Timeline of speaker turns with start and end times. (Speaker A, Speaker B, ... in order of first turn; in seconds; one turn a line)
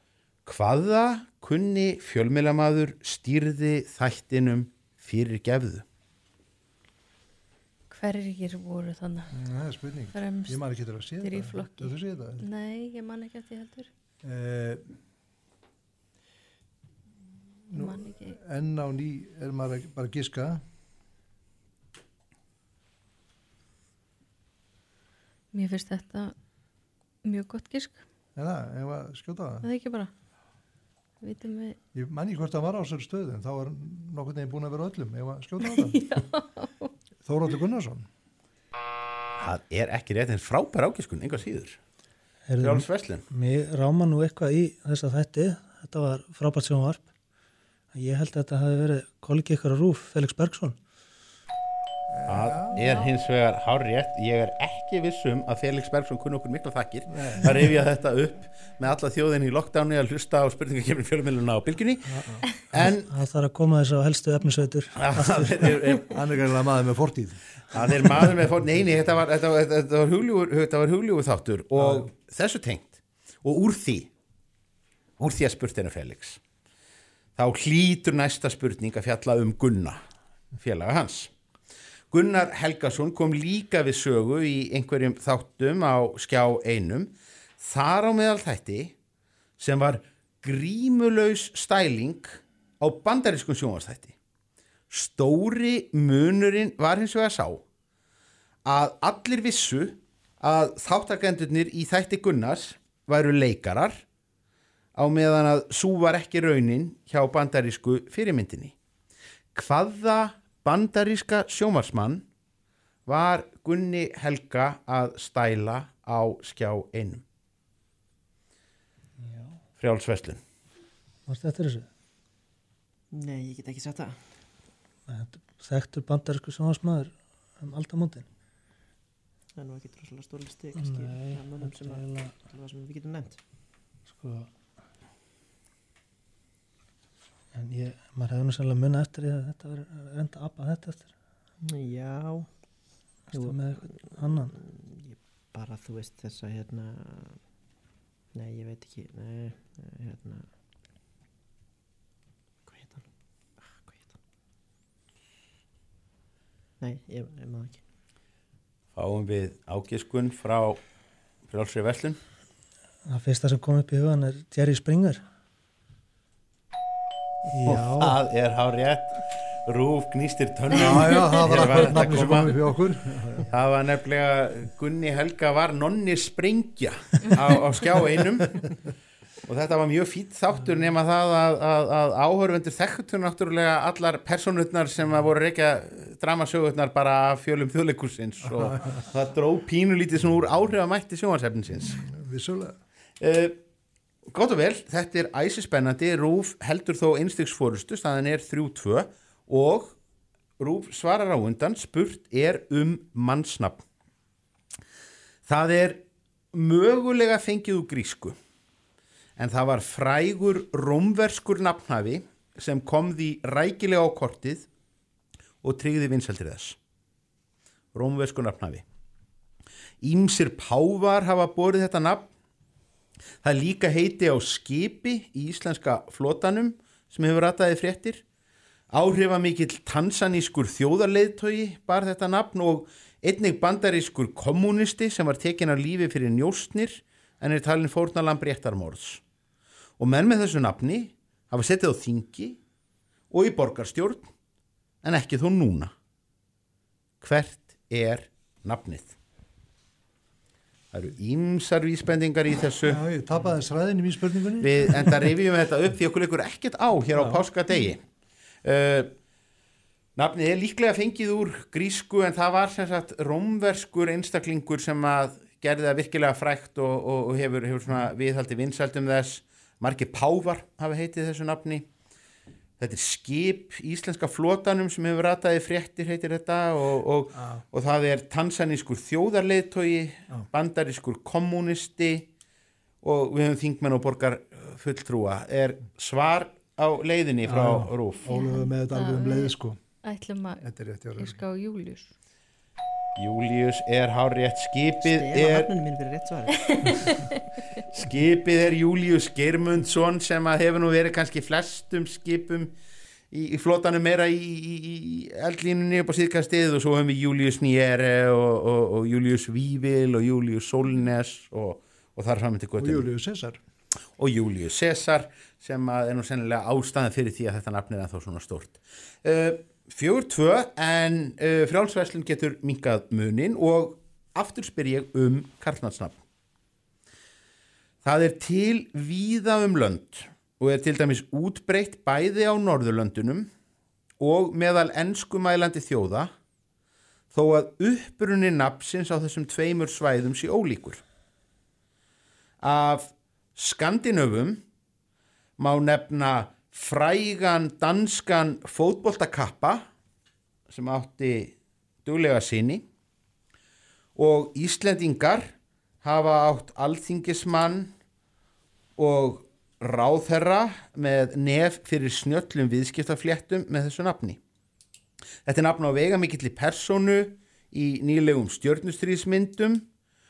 Speaker A: 0.5-5.8
Speaker B: 7.9-9.3
Speaker C: 9.3-12.4
Speaker B: 10.1-10.6
Speaker B: 11.2-13.9
Speaker C: 14.2-14.8
Speaker C: 17.7-20.6
Speaker B: 17.7-18.4
Speaker B: 25.5-26.3
Speaker B: 27.2-28.0
Speaker C: 28.4-29.6
Speaker B: 29.6-30.1
Speaker B: 31.2-31.8
Speaker C: 31.9-36.0
Speaker B: 35.6-36.9
Speaker C: 37.2-38.1
Speaker A: 39.4-41.8
Speaker D: 42.5-47.0
Speaker A: 42.6-43.2
Speaker D: 47.9-50.8
Speaker C: 52.1-53.0
Speaker A: 52.3-63.1
Speaker C: 57.1-57.6
Speaker D: 62.1-65.8
Speaker A: 65.0-66.1
Speaker C: 66.1-68.3
Speaker A: 67.7-74.1
Speaker C: 71.8-72.0
Speaker A: 75.2-76.4
Speaker A: 77.3-80.0
Speaker A: 80.6-81.3
Speaker A: 82.1-88.9
Speaker A: 89.6-94.1
Speaker A: 94.9-97.6
Speaker A: 98.6-104.0
Speaker A: 104.9-108.7
Speaker A: 109.5-112.2
Speaker A: 113.0-117.2
Speaker D: 119.2-119.6
Speaker A: 119.8-120.4
Speaker D: 121.3-121.9
Speaker E: 123.1-124.2
Speaker D: 125.1-128.2
Speaker E: 129.5-133.4
Speaker D: 130.7-132.3
Speaker D: 134.1-134.5
Speaker D: 137.5-141.1
Speaker E: 141.6-142.5
Speaker D: 143.3-144.5
Speaker E: 143.3-147.4
Speaker E: 148.3-150.5
Speaker E: 152.6-154.2
Speaker E: 156.8-157.8
Speaker A: 158.9-160.8
Speaker A: 161.5-162.2
Speaker D: 163.1-165.2
Speaker D: 167.5-168.2
Speaker A: 167.9-172.5
Speaker C: 170.7-173.5
Speaker A: 173.5-178.6
Speaker A: 179.4-192.0
Speaker C: 188.4-189.0
Speaker C: 191.8-192.8
Speaker A: 193.2-193.6
Speaker A: 194.3-199.9
Speaker A: 200.6-203.8
Speaker A: 205.5-206.0
Speaker A: 206.5-208.3
Speaker A: 209.4-214.7
Speaker A: 215.6-216.8
Speaker A: 217.9-218.8
Speaker A: 220.0-222.3
Speaker A: 223.4-228.2
Speaker A: 228.9-239.2
Speaker A: 240.0-242.6
Speaker A: 243.3-244.3
Speaker A: 245.0-245.9
Speaker A: 247.2-249.1
Speaker A: 250.9-253.0
Speaker C: 252.8-255.3
Speaker A: 254.6-258.0
Speaker C: 257.1-257.4
Speaker A: 258.6-259.1
Speaker A: 260.1-271.9
Speaker A: 272.8-282.3
Speaker C: 277.4-277.6
Speaker A: 283.0-288.2
Speaker C: 287.5-289.8
Speaker B: 288.3-292.1
Speaker C: 290.6-291.4
Speaker A: 293.1-295.7
Speaker E: 295.0-297.2
Speaker A: 297.9-302.7
Speaker A: 303.3-313.1
Speaker C: 312.8-313.6
Speaker A: 314.2-326.2
Speaker A: 328.0-333.5
Speaker A: 334.2-336.3
Speaker A: 337.3-341.0
Speaker A: 342.6-344.6
Speaker A: 345.6-349.9
Speaker A: 350.7-352.8
Speaker A: 354.1-357.9
Speaker A: 359.0-364.4
Speaker A: 365.4-369.9